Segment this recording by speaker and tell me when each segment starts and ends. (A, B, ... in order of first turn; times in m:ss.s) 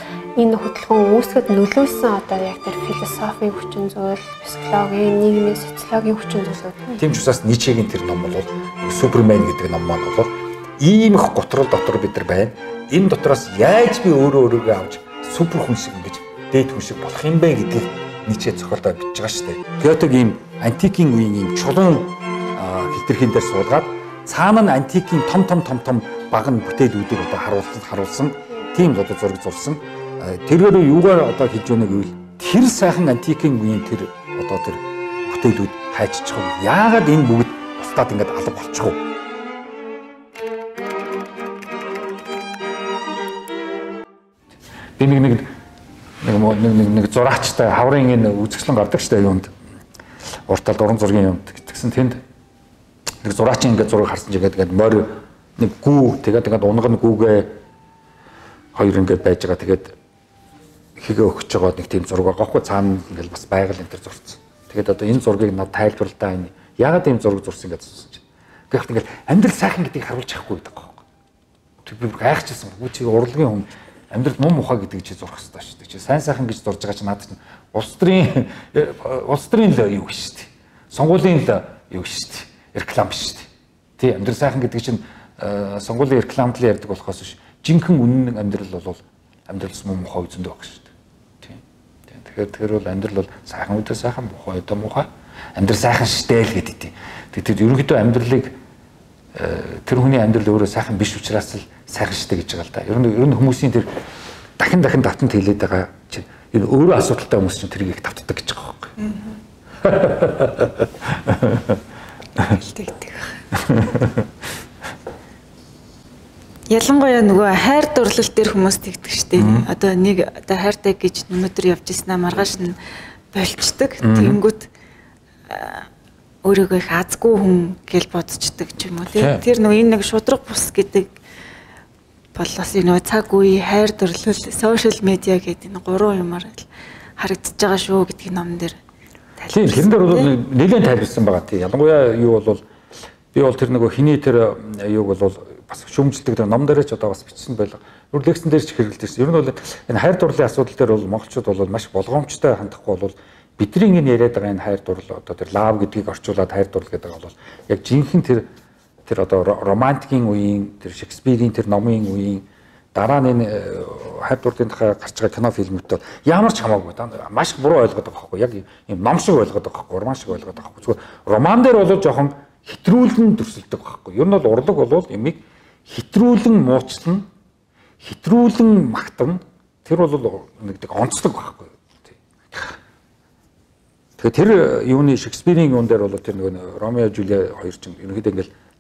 0:00.4-0:07.0 A
0:07.0-0:39.0 B
0:45.0-0:45.5 B
0:46.2-0:49.5 B
0:50.5-0:52.2 B
0:53.2-0:57.6 B
0:58.8-0:59.9 B
1:01.0-1:11.0 B
1:11.8-1:30.9 B
1:31.4-1:38.5 B
1:39.4-1:43.9 B
1:44.6-1:48.9 B
1:49.8-1:51.7 B
1:52.4-1:53.3 C
1:53.6-1:54.2 B
1:56.7-2:02.8 C
1:59.4-1:59.7 B
2:03.3-2:04.7 C
2:04.0-2:04.4 B
2:05.5-2:05.9 C
2:06.4-2:11.1 C
2:09.1-2:09.4 B
2:12.4-2:16.7 C
2:17.2-2:18.8 C
2:19.4-2:20.3 C
2:19.5-2:22.6 B
2:23.3-2:38.5 B
2:39.1-2:57.3 B
2:58.0-3:02.8 B
3:04.2-3:08.5 B